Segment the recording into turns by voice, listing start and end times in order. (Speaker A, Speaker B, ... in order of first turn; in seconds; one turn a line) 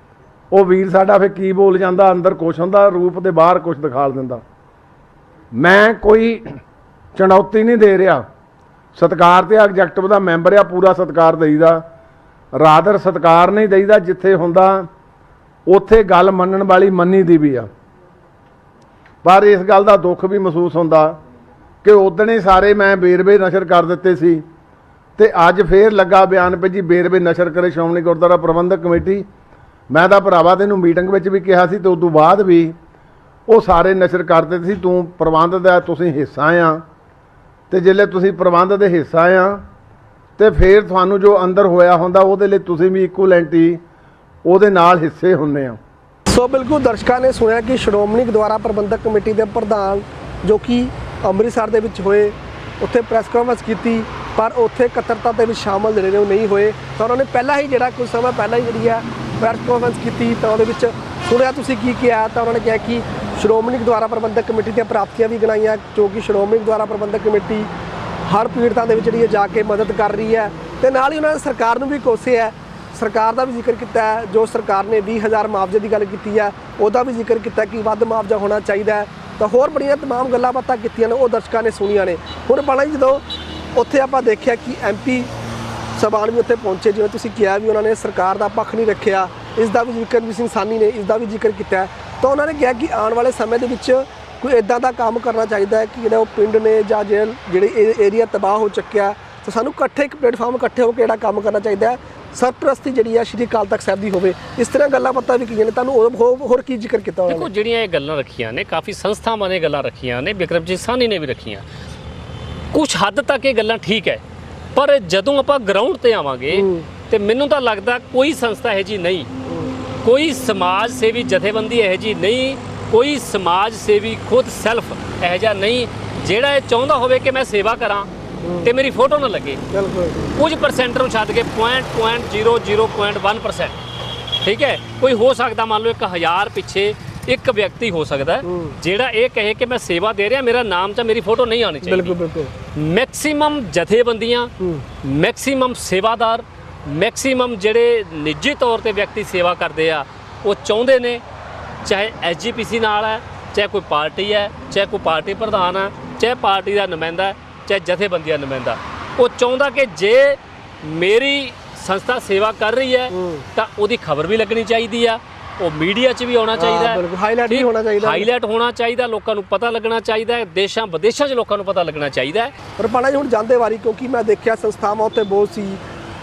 Speaker A: 0.5-4.4
Speaker A: 5.5-6.6
Speaker A: 7.1-8.2
Speaker A: 8.9-11.9
Speaker A: 12.6-14.9
Speaker A: 15.7-17.7
Speaker A: 19.2-21.2
Speaker A: 21.8-24.4
Speaker A: 25.2-29.2
Speaker A: 29.9-32.7
Speaker A: 33.5-36.8
Speaker A: 37.7-39.6
Speaker A: 40.4-43.8
Speaker A: 44.4-45.8
Speaker B: 46.3-67.7
Speaker B: 68.2-83.2
Speaker B: 83.7-85.3
Speaker B: 86.0-107.5
Speaker C: 107.3-111.6
Speaker C: 112.7-114.2
Speaker C: 114.7-119.3
Speaker B: 116.5-116.9
Speaker B: 119.5-119.7
Speaker C: 120.0-128.1
Speaker B: 128.4-128.7
Speaker C: 128.6-129.6
Speaker B: 129.7-130.3
Speaker C: 130.4-133.8
Speaker C: 134.4-142.2
Speaker B: 138.4-138.8
Speaker B: 141.8-142.5
Speaker C: 142.7-151.2
Speaker C: 151.8-172.5
Speaker B: 163.1-163.4
Speaker B: 166.6-168.3
Speaker B: 172.8-175.8